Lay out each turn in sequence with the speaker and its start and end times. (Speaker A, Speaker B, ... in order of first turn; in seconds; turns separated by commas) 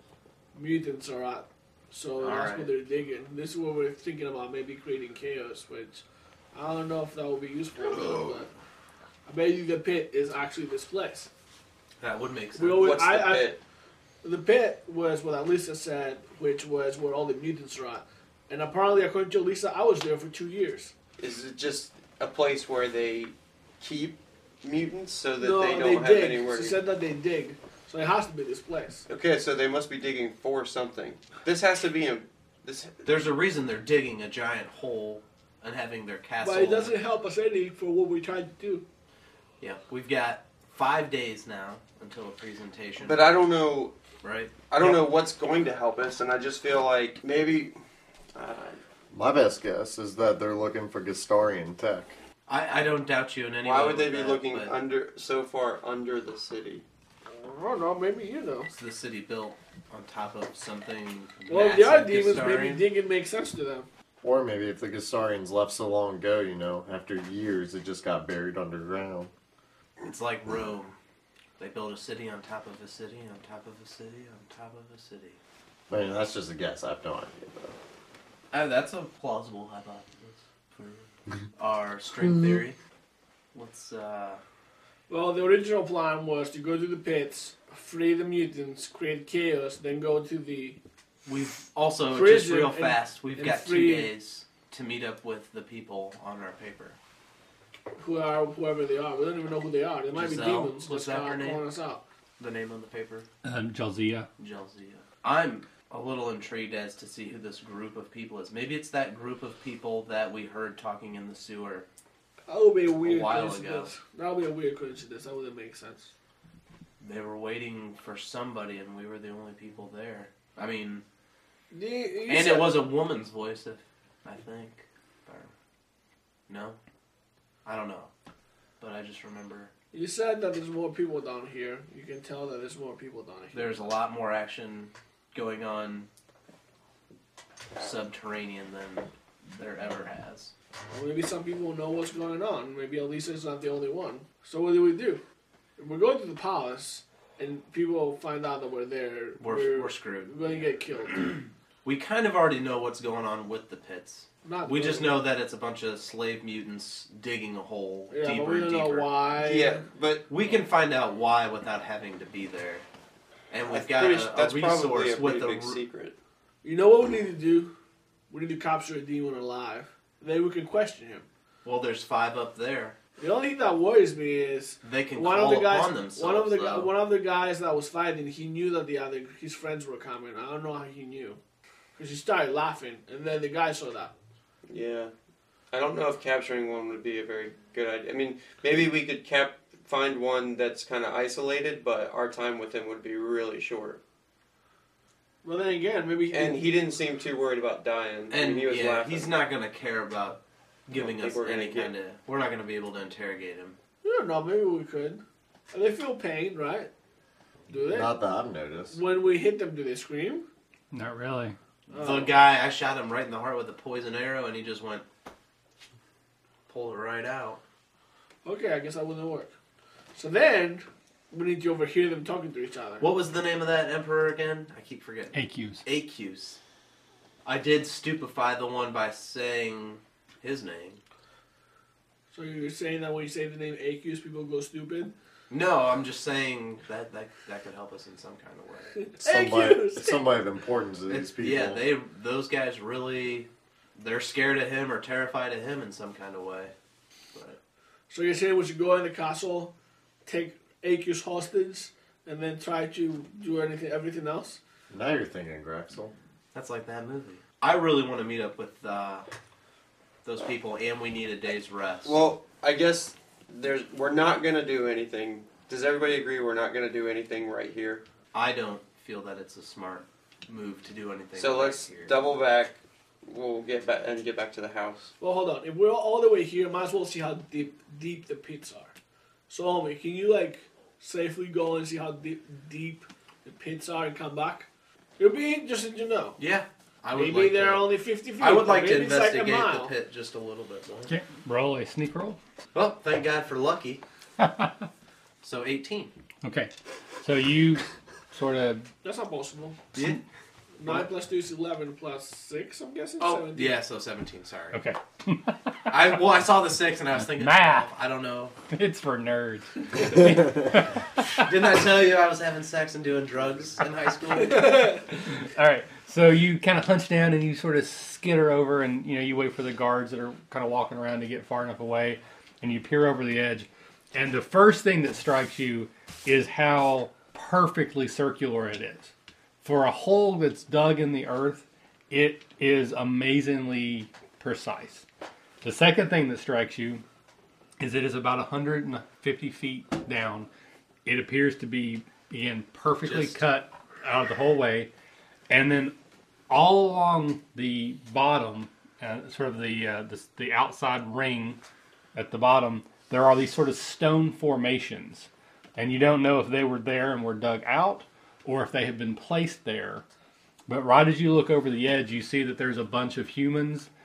Speaker A: 0.5-8.5, Speaker B: 2.2-2.7, Speaker B: 7.8-8.4, Speaker A: 9.2-11.3, Speaker B: 12.0-12.9, Speaker A: 12.5-13.5, Speaker C: 12.7-13.6, Speaker A: 14.2-20.9, Speaker C: 21.2-26.8, Speaker A: 25.4-29.1, Speaker C: 29.1-33.0, Speaker B: 33.0-37.0, Speaker A: 36.4-38.8, Speaker B: 39.6-43.2, Speaker C: 43.0-43.9, Speaker B: 44.2-45.1, Speaker C: 44.7-47.7, Speaker C: 48.3-48.8, Speaker D: 49.1-52.1, Speaker B: 52.5-54.7, Speaker C: 53.6-56.8, Speaker A: 57.3-58.7, Speaker B: 58.7-62.8, Speaker A: 61.5-63.9, Speaker D: 64.2-69.3, Speaker B: 70.0-70.9, Speaker B: 71.6-75.4, Speaker D: 75.9-77.7, Speaker B: 78.5-82.8, Speaker B: 83.5-84.4, Speaker A: 85.1-90.8, Speaker B: 91.2-97.0, Speaker A: 92.1-94.1, Speaker A: 98.0-102.0, Speaker B: 100.1-101.6, Speaker B: 102.4-103.3, Speaker E: 103.4-104.3, Speaker B: 104.4-111.8, Speaker A: 112.5-116.1, Speaker B: 113.0-113.9, Speaker B: 117.0-121.0, Speaker A: 121.7-122.8, Speaker B: 122.2-125.5, Speaker B: 126.5-126.8, Speaker B: 127.6-128.1, Speaker B: 128.8-129.7, Speaker A: 129.9-133.8, Speaker B: 133.5-136.1, Speaker B: 137.8-140.5, Speaker A: 140.9-145.2, Speaker A: 145.8-151.3, Speaker B: 149.4-150.6, Speaker B: 151.8-159.2, Speaker A: 154.4-155.2, Speaker A: 158.1-159.8, Speaker C: 159.4-160.3, Speaker B: 160.3-162.8, Speaker B: 163.5-165.8, Speaker C: 163.6-166.1, Speaker A: 166.6-167.7, Speaker A: 168.3-171.3, Speaker B: 171.6-173.0, Speaker A: 173.2-181.4, Speaker B: 174.8-176.9, Speaker A: 182.0-184.1, Speaker C: 184.7-185.1, Speaker C: 185.7-194.0, Speaker A: 195.4-196.6, Speaker C: 196.3-199.4, Speaker B: 198.3-203.8, Speaker C: 200.9-201.9, Speaker A: 204.0-206.9, Speaker A: 207.7-208.1, Speaker D: 207.9-209.0, Speaker A: 208.9-210.4, Speaker E: 210.9-211.6, Speaker A: 211.9-212.4, Speaker B: 211.9-215.0, Speaker B: 216.7-217.6, Speaker A: 218.4-219.5, Speaker A: 220.1-223.1, Speaker B: 223.0-226.6, Speaker E: 225.3-225.8, Speaker B: 227.4-231.0, Speaker A: 232.3-235.1, Speaker B: 235.5-238.9, Speaker A: 239.0-240.3, Speaker D: 239.2-241.8, Speaker B: 241.1-246.7, Speaker B: 247.3-247.6, Speaker A: 248.1-249.7, Speaker A: 250.2-254.6, Speaker D: 254.9-256.1, Speaker B: 256.5-259.3, Speaker B: 260.2-262.2, Speaker C: 262.0-268.0, Speaker B: 268.3-272.1, Speaker C: 271.3-275.1, Speaker A: 275.2-278.9, Speaker A: 279.5-286.4, Speaker B: 286.4-291.1, Speaker A: 287.1-289.9, Speaker E: 291.1-292.4, Speaker B: 292.7-294.0, Speaker E: 294.4-294.9, Speaker B: 295.4-296.1, Speaker E: 296.4-298.9, Speaker A: 299.0-299.8, Speaker B: 299.9-300.2, Speaker A: 300.8-303.8, Speaker B: 303.2-304.8, Speaker E: 304.7-306.0, Speaker B: 305.9-308.6, Speaker E: 307.3-307.9, Speaker E: 308.7-311.5, Speaker B: 311.4-315.0, Speaker A: 314.5-315.0, Speaker E: 315.4-335.1, Speaker E: 335.6-337.0, Speaker E: 337.8-340.5, Speaker E: 341.1-344.9, Speaker B: 343.0-343.4, Speaker E: 345.5-345.9, Speaker E: 346.5-351.6, Speaker E: 352.1-360.0, Speaker E: 360.7-363.9